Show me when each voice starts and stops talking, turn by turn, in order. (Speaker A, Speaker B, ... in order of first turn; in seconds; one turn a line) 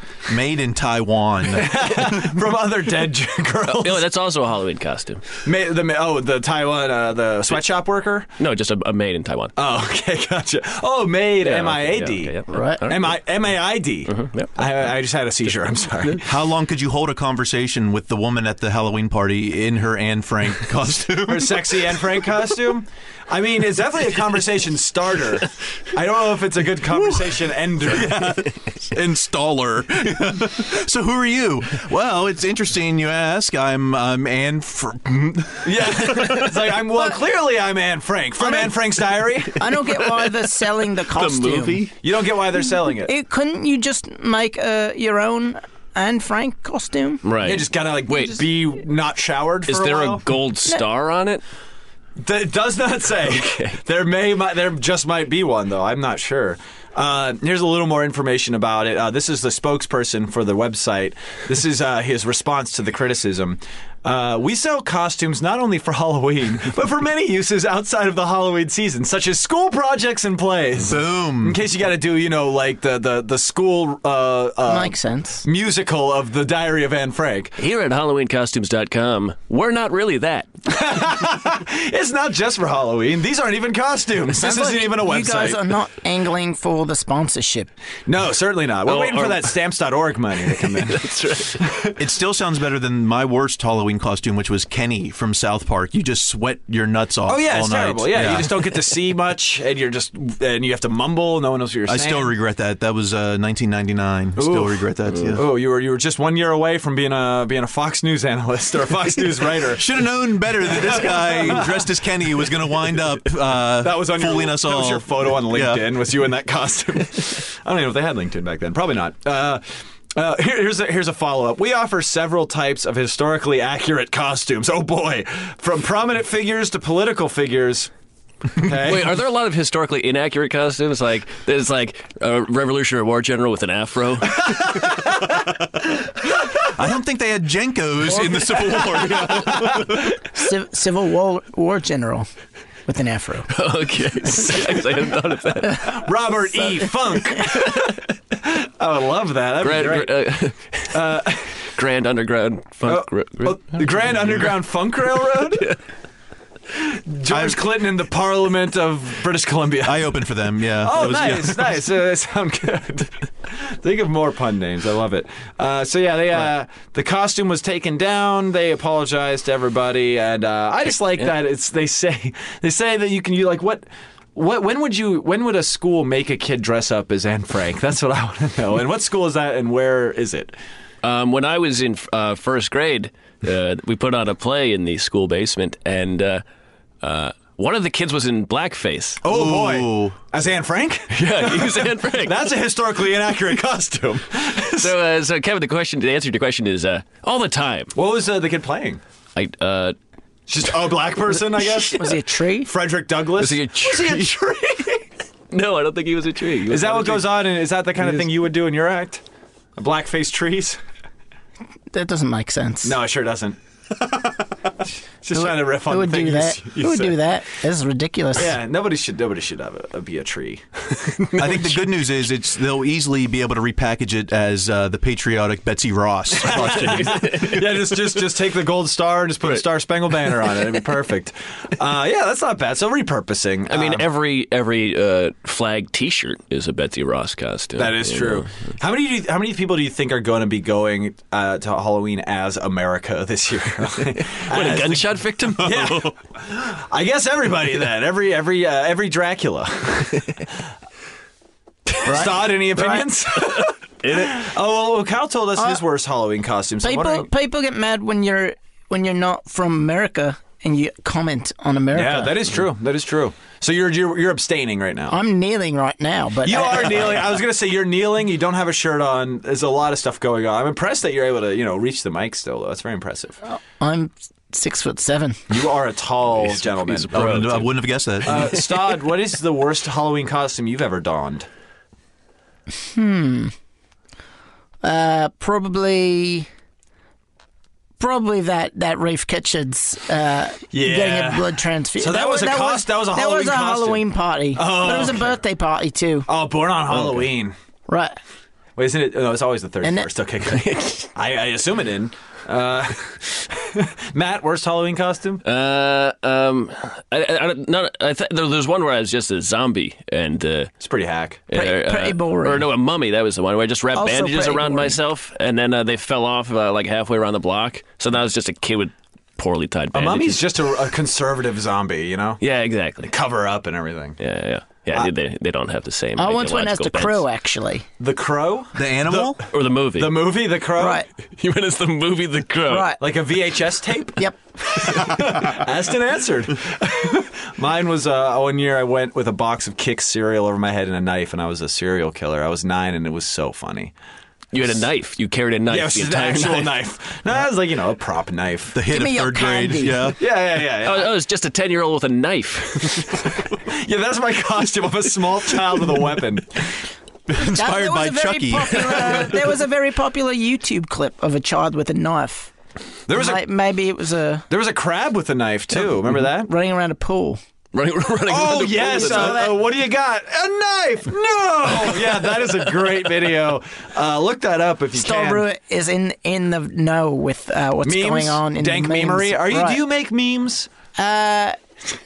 Speaker A: 0.3-2.3
Speaker B: 1.5-4.0
Speaker C: 3.7-5.2
Speaker B: 5.4-8.3
Speaker C: 8.4-9.5
Speaker B: 9.6-16.2
Speaker C: 11.4-13.2
Speaker D: 12.5-12.8
Speaker C: 14.1-14.6
Speaker A: 16.2-22.3
Speaker B: 21.2-28.2
Speaker A: 26.9-36.4
Speaker B: 35.6-39.7
Speaker D: 39.5-41.9
Speaker C: 40.0-40.5
Speaker C: 41.1-41.9
Speaker B: 42.0-43.1
Speaker D: 43.0-47.2
Speaker C: 47.2-48.4
Speaker B: 47.4-50.2
Speaker C: 49.7-51.4
Speaker B: 52.2-77.5
Speaker C: 53.4-53.7
Speaker A: 70.8-71.6
Speaker D: 74.6-75.4
Speaker C: 77.6-80.5
Speaker B: 80.7-85.7
Speaker D: 84.3-87.7
Speaker B: 88.1-92.0
Speaker C: 88.8-89.6
Speaker C: 90.4-91.6
Speaker A: 92.0-98.5
Speaker B: 97.3-102.3
Speaker A: 101.9-105.4
Speaker B: 104.4-109.9
Speaker A: 109.7-115.9
Speaker B: 110.6-111.9
Speaker B: 113.8-119.6
Speaker B: 120.2-127.9
Speaker B: 128.5-129.1
Speaker C: 128.7-134.8
Speaker B: 134.5-135.2
Speaker A: 136.6-140.1
Speaker B: 139.1-139.8
Speaker D: 140.2-142.3
Speaker D: 142.9-143.5
Speaker C: 143.5-146.0
Speaker B: 145.8-150.2
Speaker C: 149.6-151.0
Speaker B: 150.9-151.6
Speaker C: 151.7-154.5
Speaker B: 152.8-155.7
Speaker C: 155.3-155.8
Speaker B: 156.8-160.1
Speaker A: 157.3-157.6
Speaker A: 159.8-161.8
Speaker B: 160.8-180.5
Speaker C: 181.0-186.4
Speaker C: 187.0-189.2
Speaker B: 189.2-194.9
Speaker A: 189.3-190.2
Speaker C: 191.1-192.5
Speaker C: 194.8-197.9
Speaker B: 197.9-199.0
Speaker C: 199.3-199.9
Speaker B: 200.5-205.0
Speaker D: 201.9-202.7
Speaker C: 203.4-204.4
Speaker C: 205.5-207.4
Speaker B: 206.7-209.2
Speaker B: 209.8-210.8
Speaker D: 211.9-212.9
Speaker B: 212.8-217.2
Speaker D: 215.3-218.6
Speaker B: 218.3-221.4
Speaker A: 221.4-227.7
Speaker B: 226.4-234.1
Speaker C: 226.5-227.6
Speaker C: 230.3-230.6
Speaker C: 233.7-238.5
Speaker B: 237.8-250.4
Speaker C: 244.3-246.1
Speaker B: 252.0-257.3
Speaker D: 252.1-253.0
Speaker C: 254.0-254.4
Speaker D: 256.8-262.4
Speaker B: 261.9-265.2
Speaker D: 265.1-267.3
Speaker B: 266.4-273.4
Speaker D: 273.5-275.4
Speaker B: 275.5-277.7
Speaker C: 276.4-277.7
Speaker A: 277.1-278.5
Speaker B: 278.2-281.5
Speaker C: 278.3-278.6
Speaker D: 282.9-283.5
Speaker D: 284.8-286.5
Speaker D: 288.0-296.3
Speaker B: 290.7-295.4
Speaker B: 296.3-297.5
Speaker D: 297.9-298.2
Speaker B: 298.8-305.4
Speaker D: 299.8-300.1
Speaker C: 300.5-301.1
Speaker C: 305.4-310.7
Speaker B: 310.8-311.4
Speaker C: 311.5-320.5
Speaker D: 311.5-312.7
Speaker D: 313.9-315.0
Speaker B: 319.9-322.4
Speaker C: 322.4-323.1
Speaker B: 323.0-324.2
Speaker C: 324.2-327.2
Speaker D: 326.2-327.8
Speaker B: 328.0-331.0
Speaker A: 328.7-329.4
Speaker C: 329.5-330.2
Speaker D: 330.8-331.1
Speaker C: 331.4-332.9
Speaker D: 332.7-333.0
Speaker B: 333.0-343.9
Speaker C: 344.5-346.8
Speaker B: 345.7-348.8
Speaker A: 348.7-350.2
Speaker D: 348.9-350.1
Speaker B: 350.2-351.1
Speaker C: 350.8-353.4
Speaker B: 353.4-356.7
Speaker A: 357.3-359.2
Speaker D: 357.4-362.5
Speaker B: 363.1-363.4
Speaker D: 363.1-364.4
Speaker B: 364.5-366.5
Speaker D: 366.5-367.4
Speaker C: 367.7-369.5
Speaker B: 368.3-375.4
Speaker D: 368.9-369.6
Speaker D: 374.9-379.8
Speaker B: 377.8-380.7
Speaker D: 381.0-381.6